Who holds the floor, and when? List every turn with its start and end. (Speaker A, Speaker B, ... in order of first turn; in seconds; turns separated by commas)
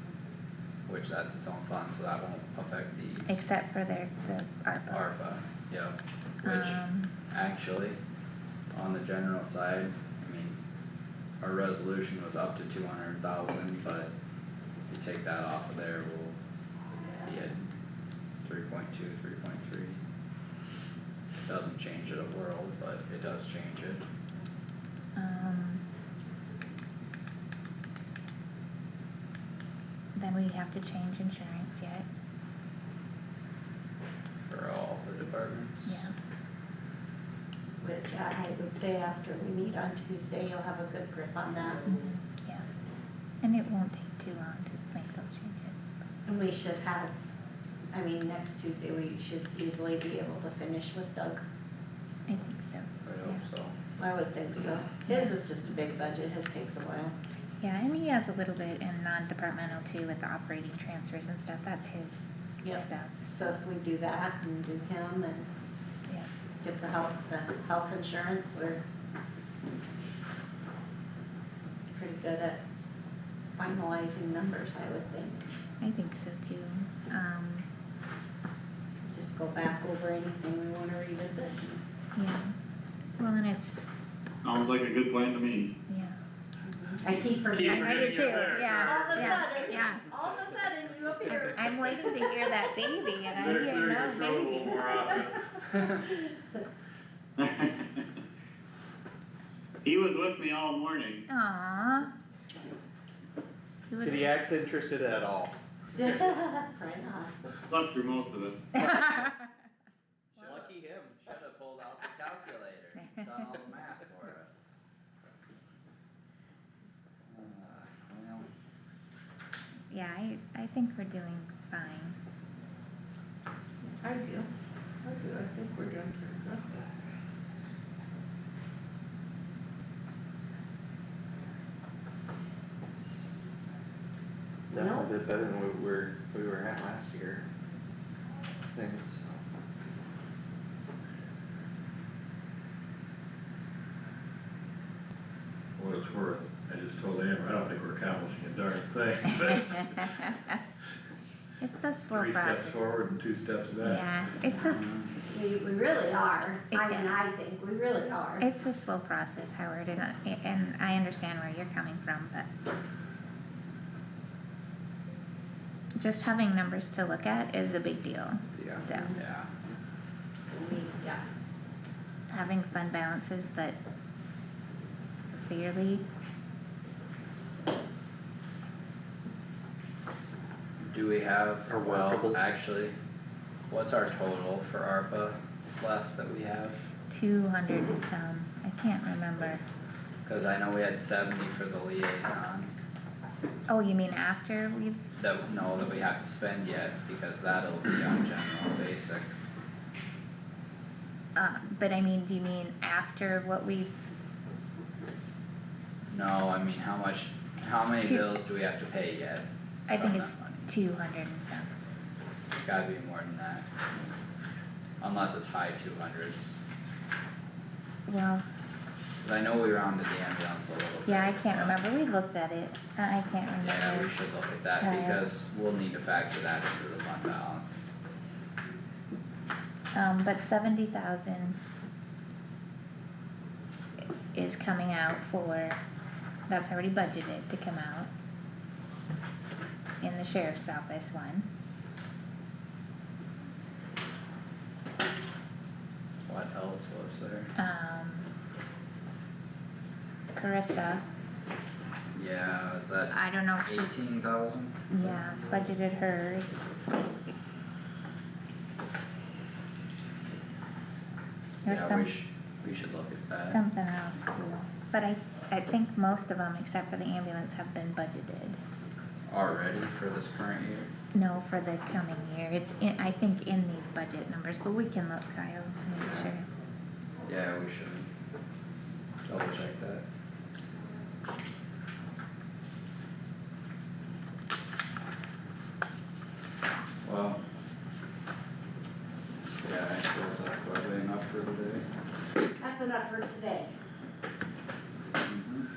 Speaker A: 0.9-3.4, Speaker B: 3.3-5.0, Speaker A: 4.9-8.0, Speaker B: 6.4-7.1, Speaker A: 8.7-10.6, Speaker A: 11.4-14.1, Speaker A: 14.9-16.4, Speaker A: 17.2-17.7, Speaker A: 18.4-20.0, Speaker A: 21.4-24.1, Speaker B: 25.2-25.8, Speaker B: 30.2-32.1, Speaker A: 34.4-36.0, Speaker B: 35.9-36.1, Speaker C: 37.8-41.8, Speaker B: 41.9-42.6, Speaker B: 43.4-46.1, Speaker C: 46.3-47.1, Speaker C: 47.9-51.4, Speaker B: 52.3-53.5, Speaker A: 53.0-53.8, Speaker C: 54.0-57.1, Speaker B: 55.1-55.4, Speaker B: 57.6-63.6, Speaker C: 63.4-65.5, Speaker C: 66.6-68.8, Speaker C: 71.9-72.6, Speaker C: 73.6-75.4, Speaker B: 75.8-77.7, Speaker C: 79.1-81.8, Speaker B: 82.2-82.5, Speaker B: 83.2-83.8, Speaker D: 84.4-85.7, Speaker B: 85.9-86.2, Speaker C: 86.7-92.0, Speaker E: 87.6-89.1, Speaker B: 87.6-90.1, Speaker D: 89.1-89.5, Speaker B: 91.3-94.8, Speaker E: 93.3-95.3, Speaker C: 95.1-96.6, Speaker D: 97.4-98.0, Speaker D: 99.8-101.2, Speaker B: 101.3-102.1, Speaker B: 103.9-104.3, Speaker F: 104.0-105.5, Speaker C: 106.0-107.5, Speaker D: 107.7-108.6, Speaker B: 108.8-109.3, Speaker A: 110.3-114.7, Speaker F: 110.4-111.2, Speaker B: 113.0-113.4, Speaker A: 117.3-118.5, Speaker B: 119.9-122.2, Speaker C: 123.9-124.5, Speaker C: 125.0-126.7, Speaker C: 134.7-135.1, Speaker F: 134.7-137.5, Speaker F: 138.7-139.4, Speaker E: 145.8-150.1, Speaker B: 149.5-150.5, Speaker B: 151.6-153.0, Speaker E: 152.1-154.0, Speaker B: 153.8-155.0, Speaker A: 154.6-155.1, Speaker C: 155.3-158.5, Speaker B: 156.7-157.2, Speaker B: 158.4-162.5, Speaker B: 166.0-169.2, Speaker C: 168.8-169.2, Speaker A: 169.2-169.5, Speaker C: 170.5-171.2, Speaker B: 172.3-173.8, Speaker B: 175.3-176.1, Speaker A: 180.8-182.9, Speaker F: 181.7-182.4, Speaker A: 183.7-186.9, Speaker B: 187.1-189.6, Speaker A: 190.3-192.8, Speaker B: 193.7-195.0, Speaker A: 195.2-199.3, Speaker B: 201.4-203.9, Speaker A: 206.1-210.7, Speaker B: 208.0-208.3, Speaker B: 209.9-211.7, Speaker A: 212.5-213.7, Speaker A: 215.0-216.6, Speaker B: 218.1-218.5, Speaker A: 219.2-221.8, Speaker B: 221.1-224.1, Speaker A: 223.6-227.9, Speaker B: 224.8-225.2, Speaker B: 229.9-231.6, Speaker B: 234.3-235.8, Speaker B: 236.5-238.1, Speaker B: 240.0-241.5, Speaker A: 246.3-247.5, Speaker B: 247.6-248.3, Speaker B: 250.3-251.0, Speaker A: 252.1-254.9, Speaker B: 253.1-253.9, Speaker B: 254.9-256.7, Speaker B: 261.6-262.1, Speaker A: 261.6-263.6, Speaker B: 263.4-268.6, Speaker A: 269.3-270.9, Speaker B: 271.1-276.5, Speaker A: 277.3-278.1, Speaker A: 279.2-280.1, Speaker A: 287.0-287.4, Speaker A: 289.6-291.9, Speaker C: 292.6-293.8, Speaker A: 295.2-295.7